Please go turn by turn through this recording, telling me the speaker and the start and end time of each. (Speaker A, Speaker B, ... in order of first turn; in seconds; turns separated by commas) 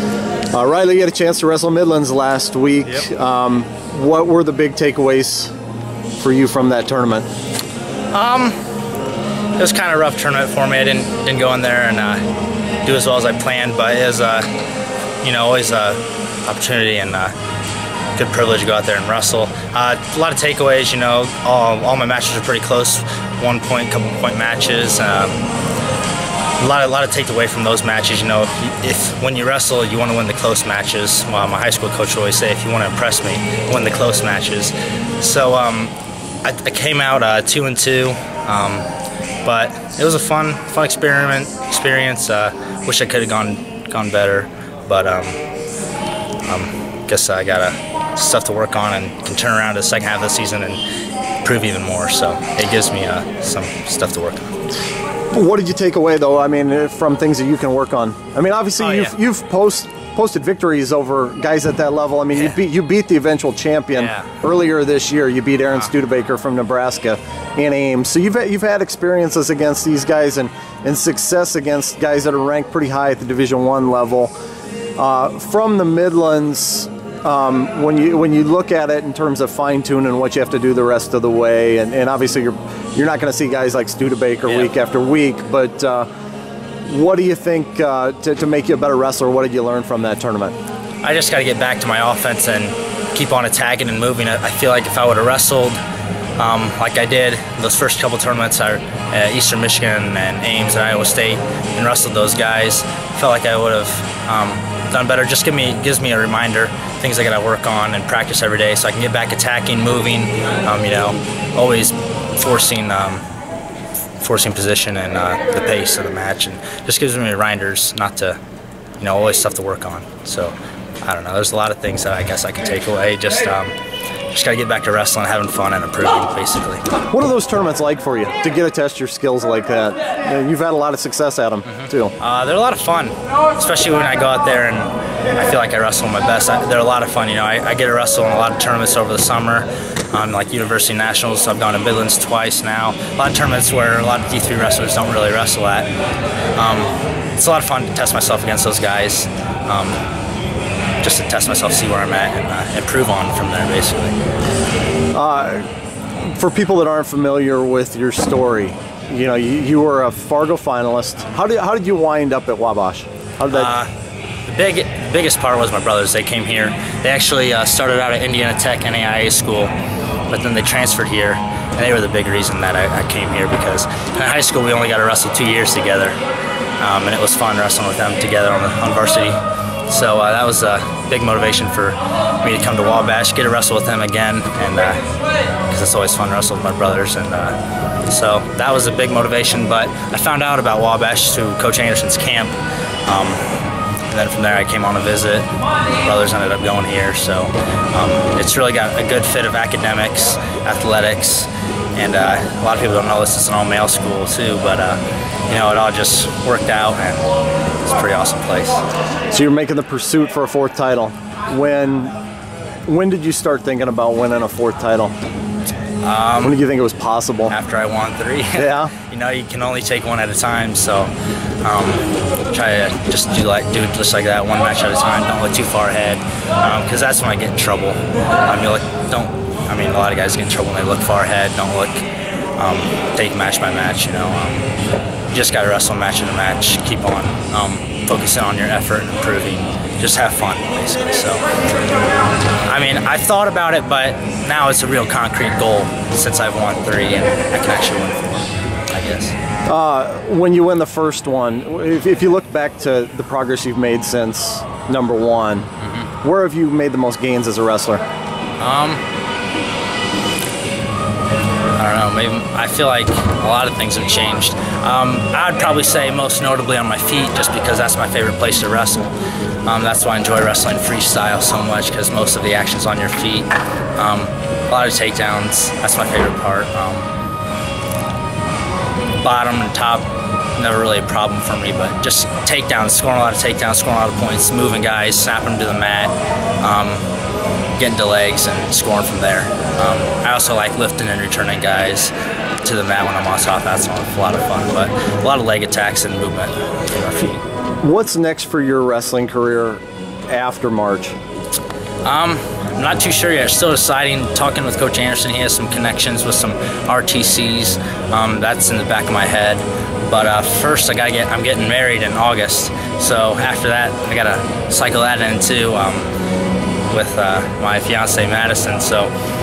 Speaker A: 0.5-5.5, Speaker A: 6.2-7.3, Speaker B: 8.1-8.6, Speaker B: 9.6-12.2, Speaker B: 12.8-14.5, Speaker B: 15.2-17.3, Speaker B: 18.2-25.4, Speaker B: 26.6-35.9, Speaker B: 36.4-38.9, Speaker B: 39.5-45.4, Speaker B: 46.5-50.8, Speaker B: 51.4-54.6, Speaker A: 55.3-74.3, Speaker B: 58.8-59.2, Speaker B: 64.0-64.3, Speaker A: 75.0-86.1, Speaker A: 86.9-90.6, Speaker B: 91.0-95.8, Speaker B: 96.4-113.2, Speaker B: 114.2-118.4, Speaker B: 119.0-123.7, Speaker B: 124.3-126.8, Speaker A: 127.1-132.2, Speaker B: 131.8-145.9, Speaker B: 146.6-150.0, Speaker B: 151.0-154.2, Speaker A: 155.1-155.7, Speaker A: 156.2-163.7, Speaker B: 163.5-163.9, Speaker B: 164.5-169.7, Speaker B: 170.3-176.2, Speaker B: 176.8-179.4, Speaker B: 179.9-185.1, Speaker B: 185.7-187.6, Speaker B: 188.1-192.5, Speaker B: 193.1-193.4, Speaker B: 194.1-195.5, Speaker B: 196.0-207.3, Speaker B: 207.8-208.8, Speaker A: 209.3-212.1, Speaker A: 212.9-215.1, Speaker B: 216.0-216.6, Speaker A: 216.4-217.6, Speaker B: 217.5-221.1, Speaker A: 218.6-218.9, Speaker B: 221.6-232.0, Speaker B: 232.6-234.7, Speaker B: 235.3-241.4, Speaker B: 242.7-249.3, Speaker A: 249.7-255.7, Speaker B: 255.8-256.1, Speaker A: 256.2-258.0, Speaker B: 258.6-259.0, Speaker B: 261.8-269.1, Speaker B: 269.7-277.1, Speaker B: 279.2-280.1, Speaker B: 280.6-287.1, Speaker B: 287.8-292.1, Speaker B: 292.6-297.4, Speaker A: 297.8-301.1, Speaker B: 302.1-316.1, Speaker B: 316.9-319.1